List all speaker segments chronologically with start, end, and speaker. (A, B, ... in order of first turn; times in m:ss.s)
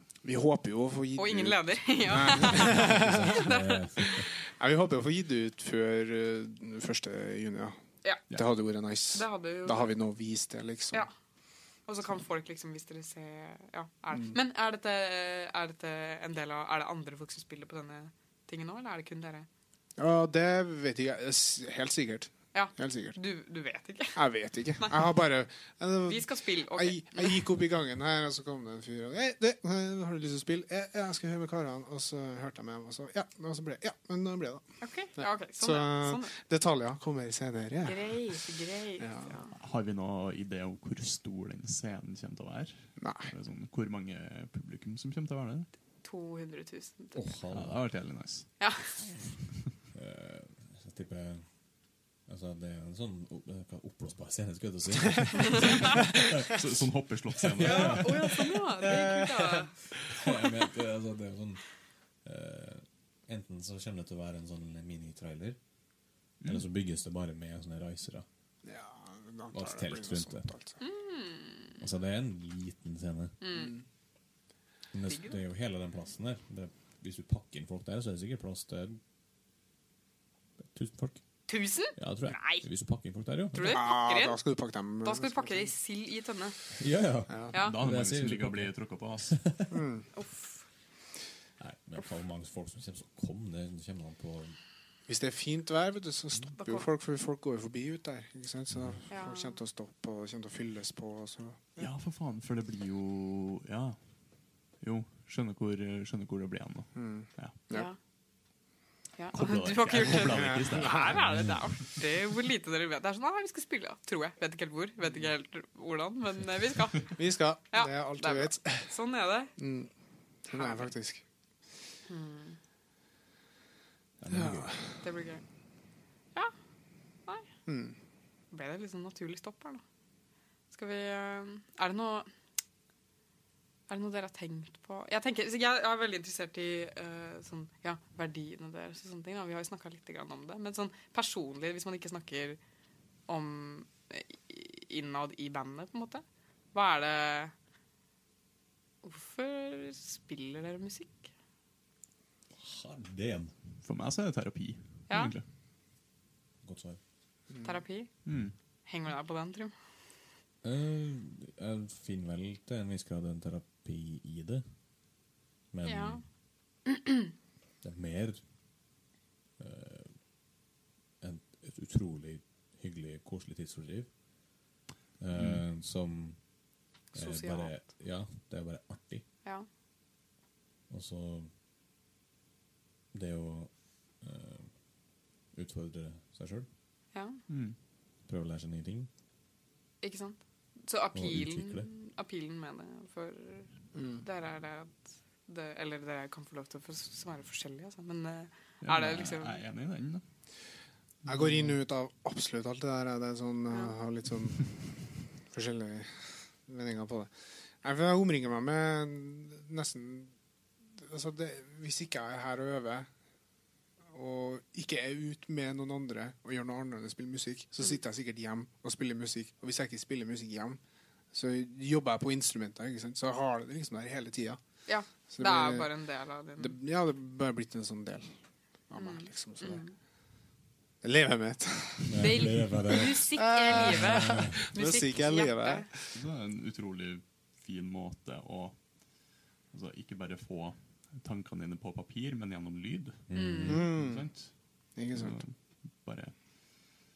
0:00.2-0:03.5 A
0:01.2-0:04.2 B
0:02.3-0:04.3 C
0:04.4-0:07.8 A
0:08.3-0:11.0 A
0:09.1-0:10.0 B
0:11.9-0:19.5 B
0:20.0-0:23.2 A
0:22.5-0:24.2 B
0:24.1-0:38.4 A
0:24.8-0:25.1 B
0:26.1-0:27.4 B
0:34.8-0:36.3 B
0:37.8-0:39.5 B
0:39.0-0:39.4 A
0:39.5-0:45.7 D
0:43.0-0:43.3 A
0:46.0-0:47.2 B
0:47.1-0:47.8 C
0:47.5-0:48.5 D
0:48.6-0:49.0 B
0:49.9-0:51.4 C
0:52.3-0:56.6 C
0:55.4-0:55.8 B
0:55.8-0:58.2 D
0:57.3-0:59.3 C
0:57.6-0:59.7 B
0:58.8-0:59.5 A
1:00.0-1:01.6 C
1:02.2-1:05.6 C
1:06.4-1:08.2 C
1:08.6-1:10.8 A
1:09.5-1:10.5 C
1:10.8-1:11.8 B
1:11.8-1:13.4 C
1:13.4-1:13.7 B
1:13.5-1:13.8 A
1:14.9-1:19.0 C
1:15.0-1:15.4 B
1:20.7-1:21.2 C
1:21.5-1:22.6 B
1:21.9-1:23.8 C
1:23.5-1:24.4 B
1:23.6-1:25.7 A
1:25.0-1:26.6 B
1:26.7-1:28.7 C
1:27.5-1:27.8 B
1:27.6-1:29.4 D
1:29.3-1:29.8 C
1:29.7-1:30.0 A
1:30.1-1:30.6 B
1:31.6-1:34.6 C
1:35.1-1:41.8 A
1:36.6-1:36.9 B
1:38.7-1:39.0 C
1:39.1-1:39.6 B
1:41.8-1:44.0 D
1:44.8-1:47.5 D
1:46.9-1:47.9 A
1:47.7-1:48.0 B
1:49.2-1:59.5 B
1:49.3-1:51.5 D
1:50.3-1:51.1 A
1:51.2-1:51.6 C
1:57.2-1:58.9 A
1:59.6-1:59.9 A
2:00.4-2:01.2 A
2:00.5-2:00.9 B
2:02.1-2:02.6 B
2:04.2-2:04.7 C
2:04.3-2:04.8 A
2:05.0-2:05.4 B
2:07.7-2:08.0 A
2:08.5-2:09.8 B
2:10.7-2:12.3 B
2:13.9-2:22.6 B
2:23.3-2:26.2 B
2:26.7-2:27.5 B
2:29.0-2:31.3 B
2:32.6-2:33.5 C
2:33.8-2:35.4 D
2:35.1-2:35.3 B
2:36.6-2:37.0 C
2:37.5-2:37.8 A
2:37.6-2:38.1 B
2:38.2-2:38.5 D
2:38.9-2:39.7 B
2:40.6-2:44.6 C
2:45.7-2:46.2 C
2:45.8-2:46.2 B
2:46.9-2:47.2 B
2:47.8-2:48.4 C
2:49.6-2:50.1 C
2:51.2-2:54.1 C
2:55.2-2:56.4 C
2:55.3-2:55.6 D
2:57.1-2:57.8 B
2:57.1-2:59.2 C
3:00.9-3:01.5 C
3:03.1-3:04.7 C
3:05.5-3:06.7 C
3:07.1-3:07.4 B
3:07.5-3:07.8 D
3:08.3-3:09.1 C
3:10.0-3:19.6 B
3:11.1-3:11.9 C
3:13.9-3:14.2 A
3:18.8-3:20.2 D
3:21.2-3:21.7 D
3:21.3-3:24.9 A
3:25.5-3:27.3 A
3:27.8-3:30.3 A
3:31.0-3:33.1 A
3:34.1-3:40.8 A
3:41.3-3:44.6 A
3:44.9-3:46.8 B
3:45.3-3:45.9 A
3:46.6-3:48.3 A
3:48.9-3:49.8 A
3:49.0-3:49.9 B
3:51.0-3:56.2 A
3:52.1-3:54.6 C
3:52.2-3:55.9 B
3:56.1-3:58.8 D
3:59.7-4:04.5 D
4:03.3-4:03.9 C
4:03.3-4:03.8 B
4:03.6-4:04.3 A
4:05.0-4:05.4 A
4:05.1-4:06.3 D